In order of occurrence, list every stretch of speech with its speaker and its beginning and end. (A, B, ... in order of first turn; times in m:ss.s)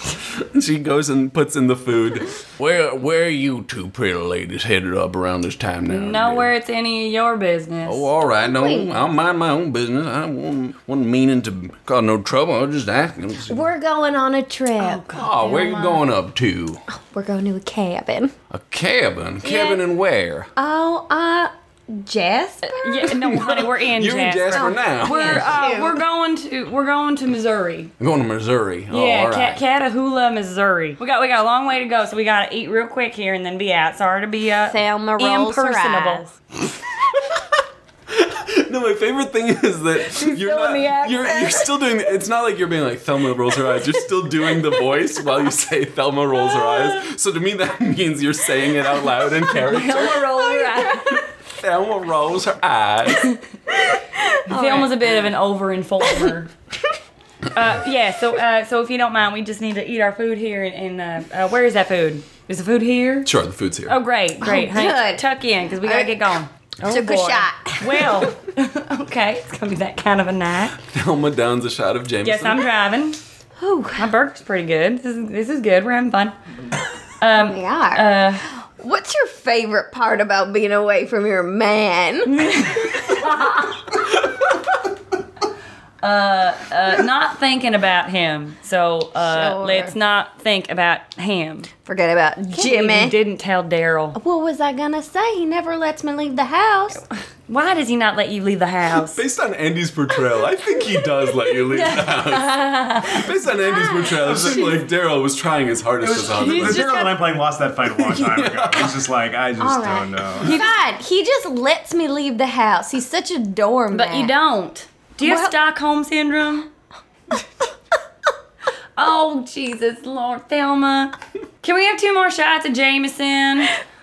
0:00.3-0:06.5 A
0:05.9-0:08.1 B
0:07.9-0:13.7 A
0:08.4-0:09.1 C
0:13.5-0:15.0 C
0:14.8-0:16.0 B
0:15.1-0:16.8 A
0:16.9-0:18.3 C
0:18.5-0:20.5 A
0:19.4-0:19.8 C
0:20.6-0:23.5 C
0:22.6-0:27.9 B
0:23.2-0:25.6 A
0:24.5-0:26.0 C
0:28.0-0:29.6 A
0:28.9-0:36.3 B
0:34.7-0:36.3 C
0:37.1-0:37.4 A
0:38.1-0:50.6 A
0:40.1-0:41.7 B
0:46.5-0:47.0 B
0:49.5-0:51.2 B
0:50.5-0:51.2 C
0:51.4-0:53.3 A
0:53.7-0:55.1 C
0:54.5-0:56.5 B
0:56.0-0:56.3 C
0:57.5-1:03.3 B
1:03.2-1:04.0 A
1:03.9-1:10.8 B
1:04.4-1:06.2 C
1:06.9-1:08.3 C
1:10.9-1:12.6 A
1:12.2-1:13.2 B
1:13.6-1:14.1 C
1:14.0-1:16.3 B
1:17.2-1:18.5 B
1:17.3-1:23.3 C
1:22.2-1:23.8 B
1:26.0-1:31.7 B
1:29.2-1:29.9 C
1:31.8-1:33.2 C
1:32.5-1:34.2 B
1:34.2-1:37.0 C
1:37.5-1:39.2 B
1:39.1-1:46.9 A
1:41.7-1:43.2 B
1:42.3-1:44.8 C
1:44.2-1:44.7 D
1:46.0-1:50.6 D
1:46.3-1:47.2 B
1:48.0-1:49.0 A
1:49.6-1:54.3 C
1:50.4-1:50.8 B
1:53.9-1:56.7 B
1:55.2-1:55.6 C
1:59.0-2:03.7 B